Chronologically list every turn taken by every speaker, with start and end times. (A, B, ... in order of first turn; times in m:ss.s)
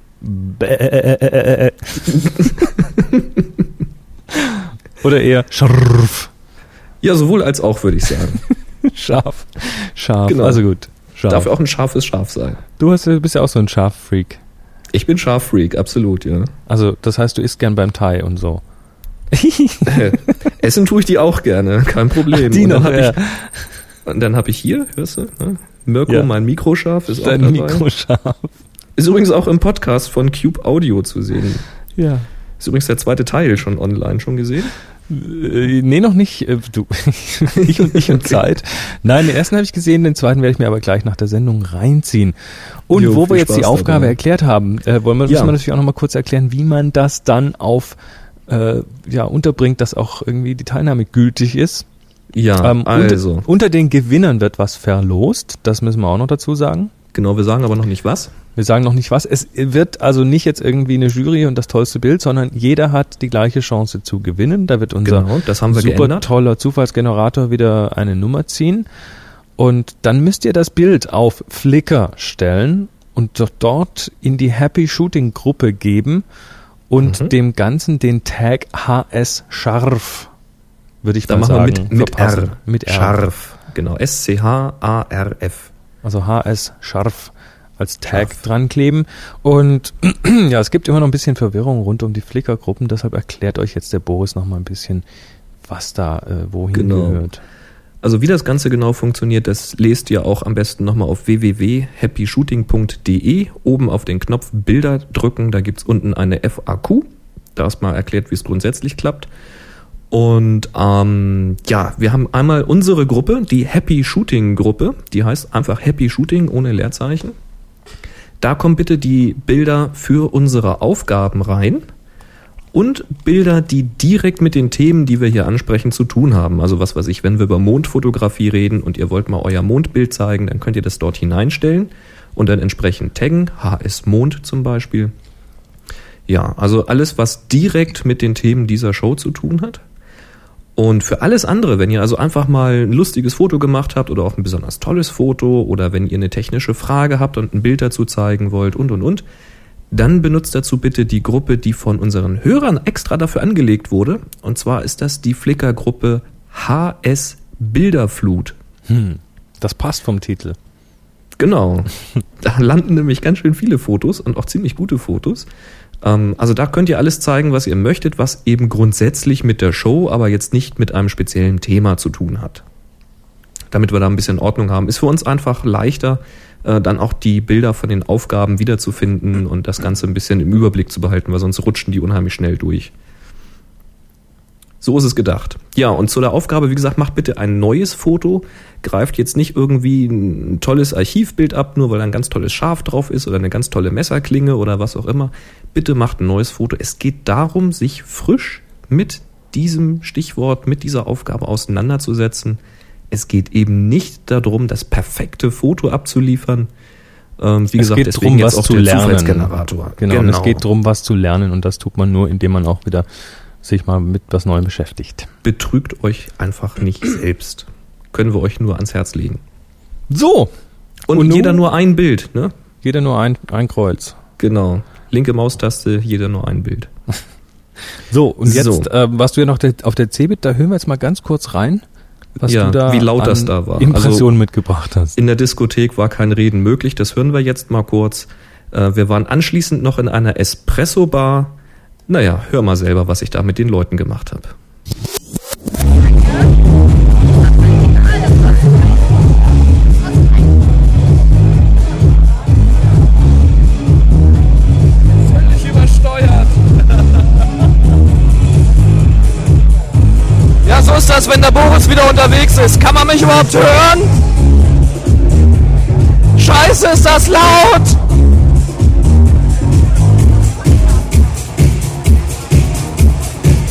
0:00.2-0:02.3 A
0:04.3-0:06.3 A
0:07.0-0:08.4 B
0:08.9-0:11.5 A
0:10.2-0:10.6 B
0:11.3-0:12.6 B
0:12.8-0:14.4 A
0:14.9-0:16.5 B
0:16.7-0:18.6 A
0:19.3-0:20.2 A
0:19.9-0:23.2 B
0:22.3-0:23.8 A
0:24.0-0:27.8 B
0:27.1-0:28.5 A
0:29.0-0:31.6 B
0:32.0-0:32.3 A
0:32.6-0:34.7 B
0:35.1-0:42.3 A
0:37.9-0:38.4 B
0:42.9-0:51.8 A
0:42.9-0:44.2 B
0:45.3-0:45.5 B
0:52.3-0:53.5 B
0:52.6-0:56.9 A
0:57.1-0:58.3 B
0:58.6-1:08.9 A
1:05.0-1:06.3 B
1:09.6-1:16.2 A
1:16.9-1:20.3 A
1:17.0-1:17.3 B
1:21.0-1:23.2 A
1:21.3-1:25.7 B
1:26.0-1:35.0 A
1:28.1-1:28.4 B
1:35.6-1:37.4 A
1:36.7-1:37.2 B
1:38.0-1:49.3 B
1:50.1-1:57.4 B
1:58.4-2:01.9 B
2:02.7-2:15.1 B
2:16.3-2:19.8 B
2:20.8-2:29.2 B
2:29.9-2:38.6 B
2:38.9-2:40.6 A
2:41.4-2:45.5 B
2:46.0-2:52.6 B
2:53.7-3:02.9 B
3:04.8-3:22.6 B
3:23.1-3:26.7 B
3:27.4-3:30.6 B
3:27.7-3:33.0 A
3:33.6-3:35.3 A
3:35.4-3:39.4 B
3:40.1-3:40.5 A
3:41.1-3:42.5 B
3:41.1-3:41.6 A
3:42.8-3:44.2 A
3:44.4-3:46.9 B
3:48.1-3:51.8 A
3:48.4-3:48.9 B
3:52.4-3:55.2 A
3:52.4-3:54.3 B
3:55.2-4:01.6 B
4:02.1-4:04.6 B
4:15.3-4:16.5 C
4:20.6-4:24.1 C
4:26.4-4:28.0 C